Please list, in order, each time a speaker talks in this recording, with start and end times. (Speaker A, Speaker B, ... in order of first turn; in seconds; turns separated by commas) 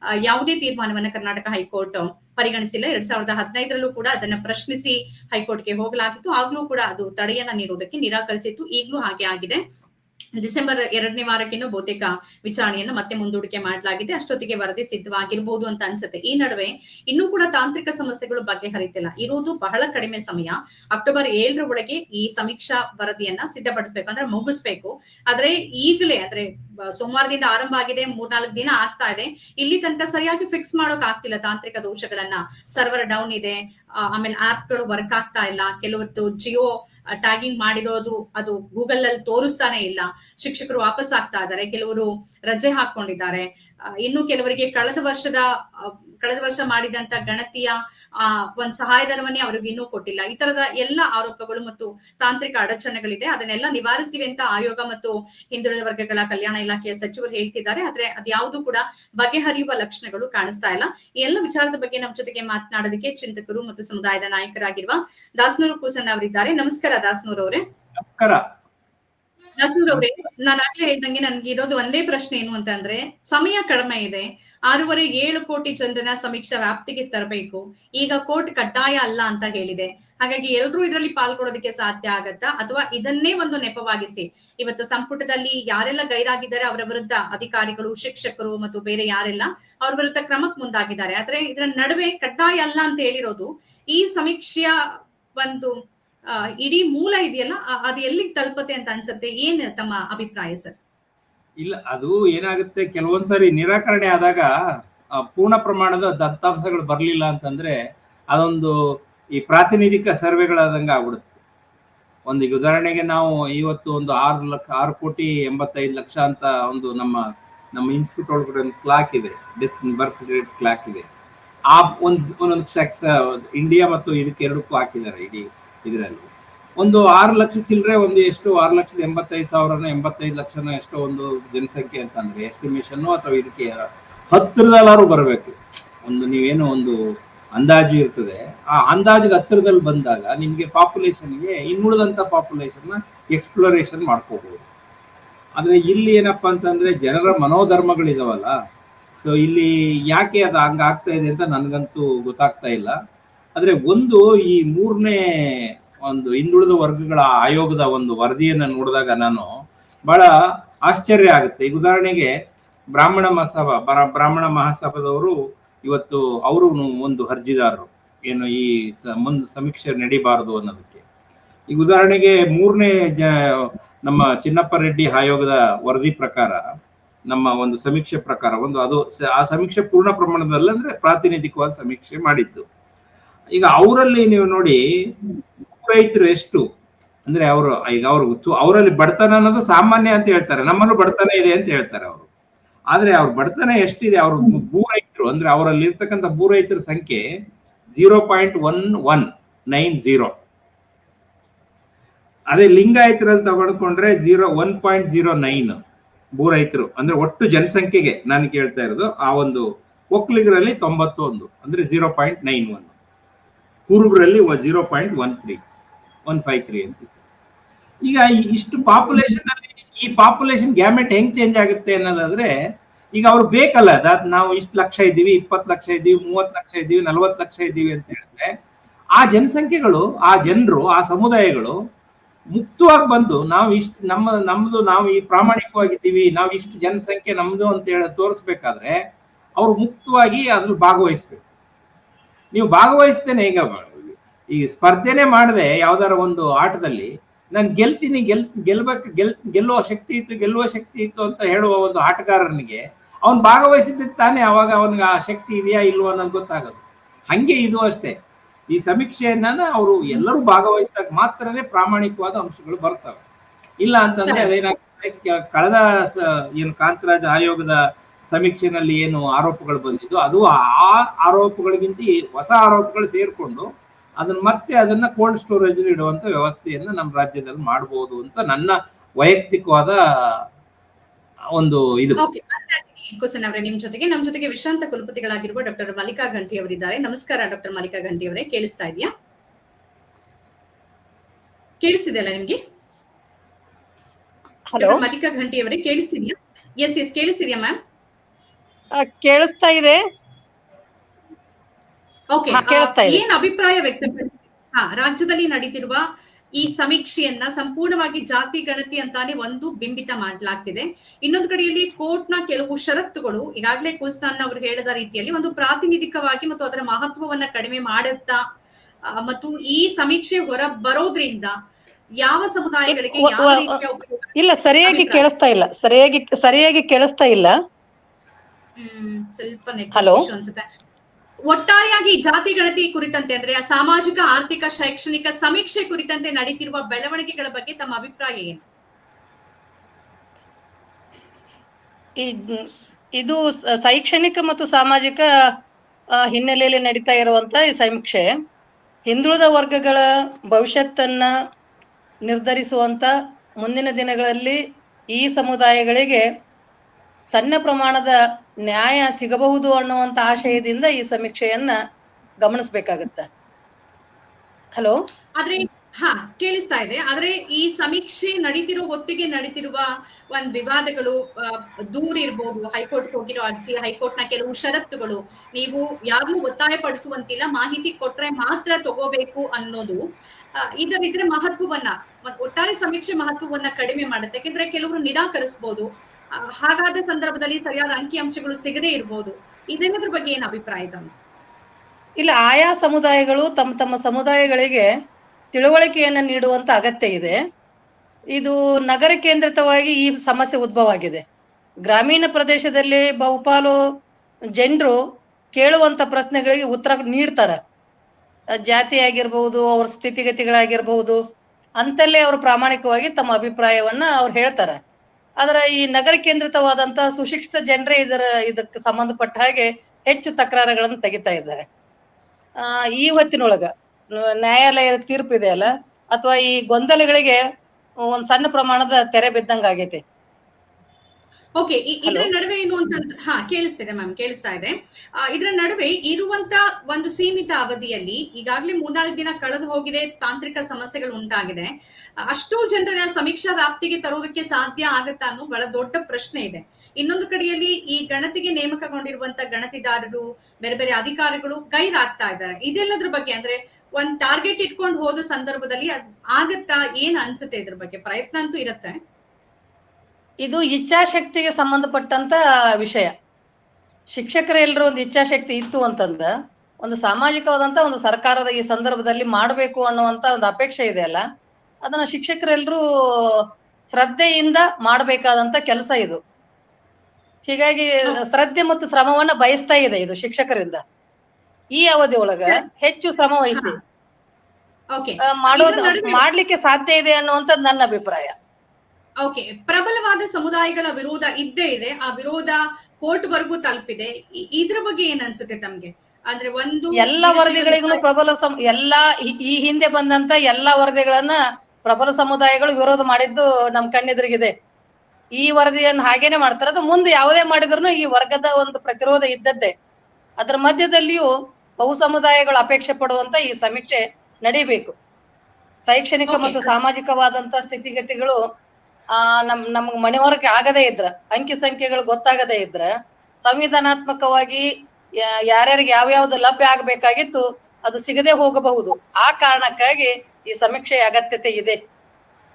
Speaker A: 0.2-9.6, Speaker A: 10.4-36.7, Speaker A: 37.2-43.5, Speaker A: 44.0-67.6, Speaker B: 68.0-68.4, Speaker A: 69.6-94.7, Speaker A: 95.4-95.7, Speaker A: 96.3-100.8, Speaker B: 101.6-104.5, Speaker B: 105.2-107.7, Speaker B: 108.3-108.7, Speaker B: 109.4-111.4, Speaker B: 112.3-117.2, Speaker B: 117.7-121.1, Speaker B: 121.7-126.3, Speaker B: 126.8-136.9, Speaker B: 137.5-144.7, Speaker B: 145.6-148.5, Speaker B: 149.1-152.9, Speaker B: 153.6-159.5, Speaker B: 160.9-162.3, Speaker B: 162.9-171.0, Speaker B: 171.7-176.6, Speaker B: 177.3-182.6, Speaker B: 183.5-184.8, Speaker B: 185.7-186.6, Speaker B: 187.3-192.3, Speaker B: 192.9-197.2, Speaker B: 197.9-200.3, Speaker B: 202.5-205.8, Speaker B: 206.4-212.9, Speaker B: 213.9-215.6, Speaker B: 216.3-217.1, Speaker B: 218.1-222.5, Speaker B: 223.1-228.5, Speaker B: 229.2-231.7, Speaker B: 232.5-239.0, Speaker B: 239.6-241.4, Speaker B: 242.5-258.1, Speaker B: 258.7-263.2, Speaker B: 263.8-267.7, Speaker A: 264.2-264.5, Speaker B: 268.3-273.6, Speaker B: 274.2-280.4, Speaker B: 281.6-282.2, Speaker A: 282.2-289.1, Speaker A: 291.8-292.6, Speaker C: 294.7-295.0, Speaker A: 294.8-297.7, Speaker C: 299.0-300.0, Speaker A: 302.3-306.0, Speaker C: 302.5-303.3, Speaker A: 306.6-318.4, Speaker A: 319.1-321.5, Speaker A: 322.2-324.3, Speaker C: 322.9-323.8, Speaker C: 324.4-327.5, Speaker A: 324.8-325.2, Speaker A: 328.8-330.6, Speaker C: 329.9-330.3, Speaker A: 331.5-338.6, Speaker C: 342.2-345.2, Speaker C: 346.2-348.2, Speaker C: 349.1-351.3, Speaker C: 352.3-353.1, Speaker C: 353.6-354.6, Speaker C: 355.1-356.2, Speaker C: 357.3-358.1, Speaker C: 358.7-361.7, Speaker C: 362.4-363.2, Speaker A: 365.4-380.0, Speaker A: 380.8-385.9, Speaker A: 386.6-391.1, Speaker C: 392.2-394.8, Speaker C: 395.5-397.4, Speaker C: 398.4-401.2, Speaker C: 401.9-403.8, Speaker C: 404.6-405.0, Speaker C: 405.5-407.6, Speaker C: 408.7-411.2, Speaker C: 411.8-414.8, Speaker C: 415.4-421.6, Speaker C: 422.6-427.4, Speaker C: 428.1-430.0, Speaker A: 431.6-441.7, Speaker A: 442.3-458.9, Speaker C: 460.4-463.1, Speaker C: 464.1-466.3, Speaker C: 466.8-471.2, Speaker C: 471.8-476.2, Speaker C: 477.4-480.8, Speaker C: 481.8-483.8, Speaker A: 484.9-486.2, Speaker C: 485.2-488.3, Speaker A: 489.2-498.0, Speaker C: 497.0-504.5, Speaker C: 505.4-509.7, Speaker C: 510.4-511.3, Speaker C: 511.8-514.9, Speaker C: 515.9-518.4, Speaker A: 516.3-516.7, Speaker C: 519.1-522.9, Speaker C: 523.4-524.6, Speaker C: 525.2-531.8